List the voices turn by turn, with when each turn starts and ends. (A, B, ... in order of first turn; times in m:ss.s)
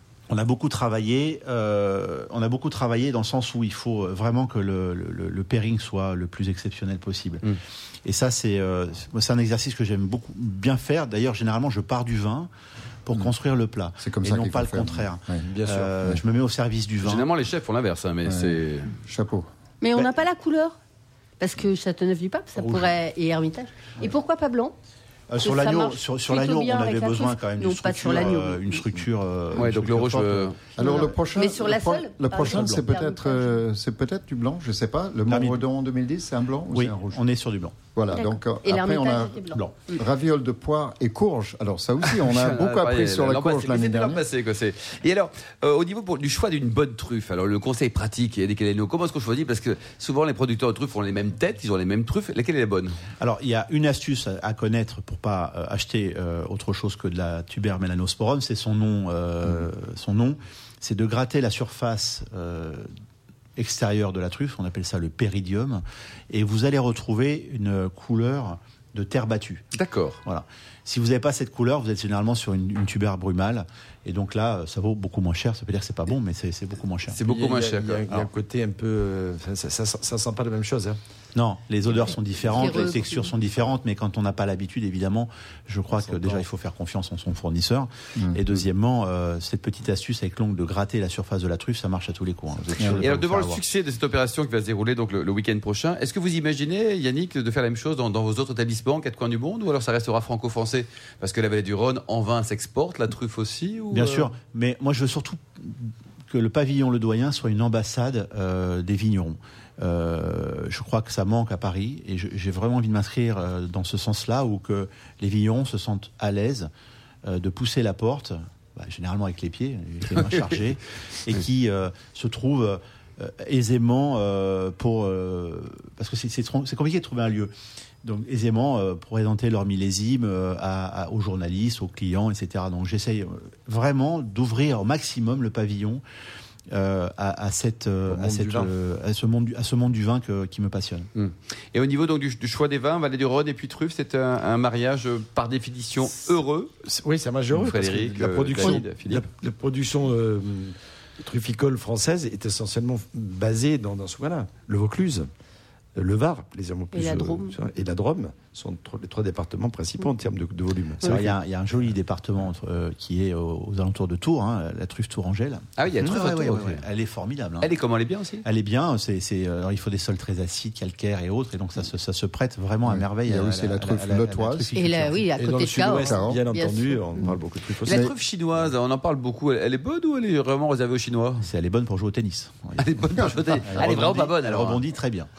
0:00.3-0:07.4 A
0:08.0-0:12.5 A
0:13.1-0:17.3 A
0:14.0-0:15.4 B
0:15.5-0:16.0 C
0:17.0-0:19.0 D
0:18.3-0:19.5 B
0:19.8-0:20.8 E
0:21.4-0:24.7 E
0:22.6-0:22.9 A
0:25.3-0:30.6 A
0:25.4-0:28.9 E
0:29.5-0:30.6 D
0:30.8-0:37.2 B
0:30.8-0:33.5 E
0:32.4-0:32.8 A
0:35.3-0:35.6 A
0:36.7-0:37.8 A
0:38.0-0:44.2 B
0:38.1-0:39.6 E
0:42.0-0:53.0 D
0:53.2-1:02.9 A
1:03.6-1:09.6 A
1:09.7-1:10.2 D
1:10.2-1:17.2 A
1:17.1-1:18.3 D
1:17.3-1:21.0 C
1:21.4-1:33.6 A
1:22.4-1:23.3 E
1:26.0-1:26.4 C
1:33.0-1:44.3 D
1:43.9-1:56.7 A
1:57.2-2:07.5 A
2:08.0-2:16.0 A
2:16.7-2:21.1 A
2:18.1-2:18.7 C
2:21.2-2:26.7 D
2:26.9-2:35.3 C
2:27.5-2:29.2 D
2:36.0-2:41.4 C
2:36.9-2:37.6 E
2:41.0-2:47.7 A
2:45.8-2:46.8 D
2:47.6-2:48.4 D
2:48.4-2:55.3 A
2:52.9-2:54.7 B
2:54.8-2:57.0 E
2:55.4-2:58.0 C
2:55.9-2:56.4 B
2:57.8-3:01.5 D
3:01.4-3:05.3 A
3:02.8-3:04.8 D